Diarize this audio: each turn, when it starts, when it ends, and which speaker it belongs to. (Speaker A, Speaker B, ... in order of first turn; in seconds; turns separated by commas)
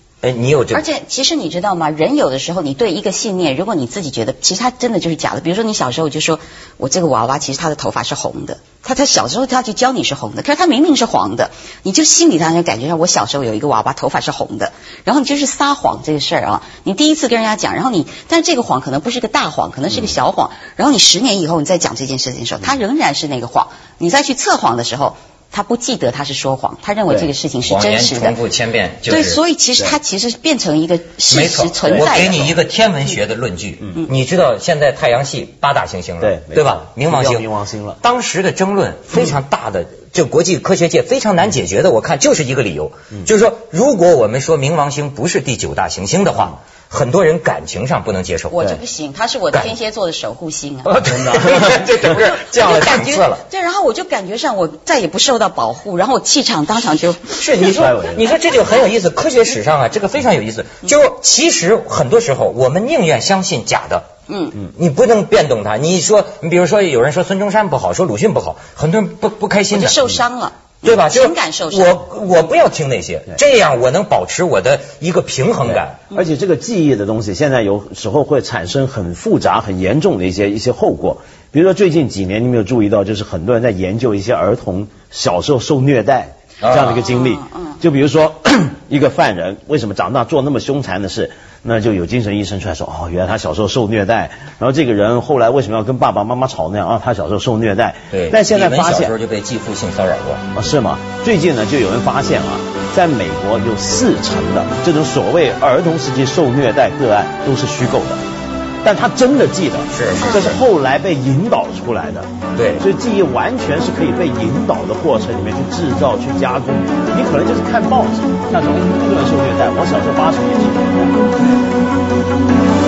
Speaker A: 0.2-0.8, Speaker B: 0.7-28.4, Speaker A: 27.6-29.4, Speaker B: 29.1-32.5, Speaker A: 31.3-37.5, Speaker C: 31.8-32.5, Speaker C: 36.2-38.0, Speaker A: 38.0-48.7, Speaker B: 48.5-51.0, Speaker A: 50.9-53.4, Speaker C: 51.0-52.2, Speaker B: 52.4-57.4, Speaker A: 57.4-64.1, Speaker C: 57.7-58.2, Speaker B: 64.3-64.6, Speaker A: 64.6-70.1, Speaker B: 69.7-72.0, Speaker A: 70.8-76.0, Speaker C: 75.7-99.1, Speaker A: 86.6-87.0, Speaker B: 87.0-87.8, Speaker A: 98.1-100.5, Speaker C: 100.5-108.2, Speaker C: 108.8-121.5, Speaker A: 109.9-110.6, Speaker B: 110.2-110.5, Speaker A: 112.6-112.8